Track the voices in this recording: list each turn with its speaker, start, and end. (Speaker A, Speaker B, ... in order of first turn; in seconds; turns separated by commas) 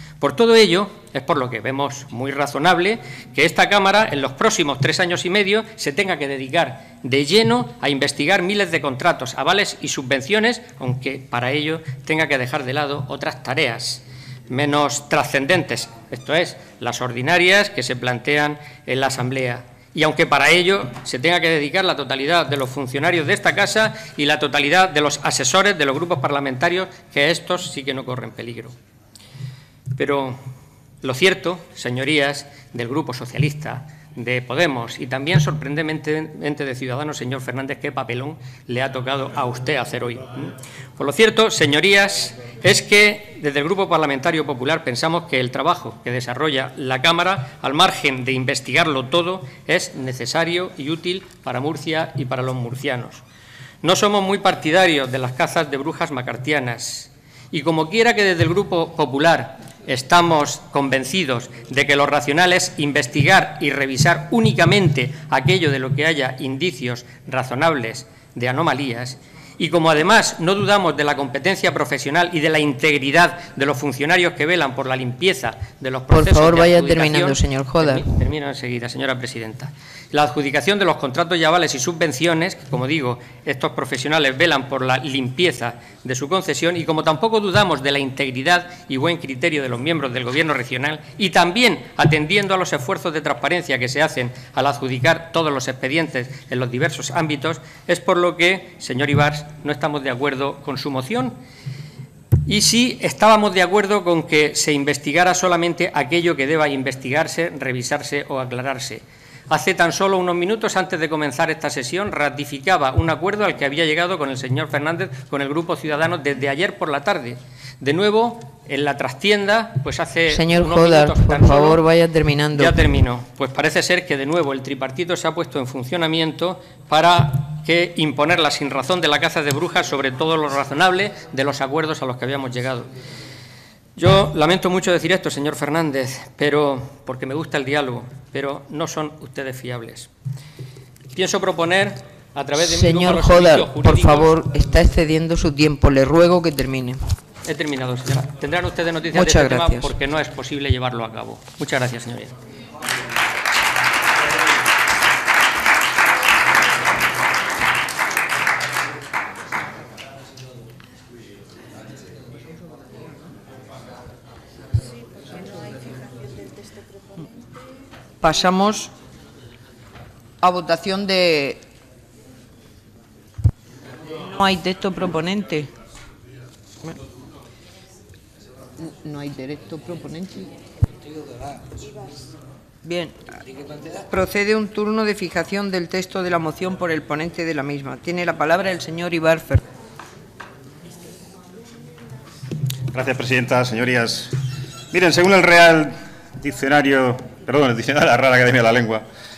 Speaker A: 0.2-28.7, Speaker A: 29.9-30.4, Speaker A: 31.0-53.2, Speaker A: 53.8-101.4, Speaker B: 76.1-78.1, Speaker A: 102.5-121.8, Speaker B: 120.3-122.8, Speaker A: 122.5-132.9, Speaker A: 134.0-140.1, Speaker A: 141.1-144.3, Speaker B: 142.6-147.0, Speaker A: 147.5-152.3, Speaker B: 149.1-149.9, Speaker B: 168.2-168.9, Speaker B: 170.4-171.6, Speaker B: 174.2-175.7, Speaker B: 178.8-180.5, Speaker B: 182.8-183.2, Speaker B: 184.0-189.6, Speaker C: 192.9-194.3, Speaker C: 194.9-199.1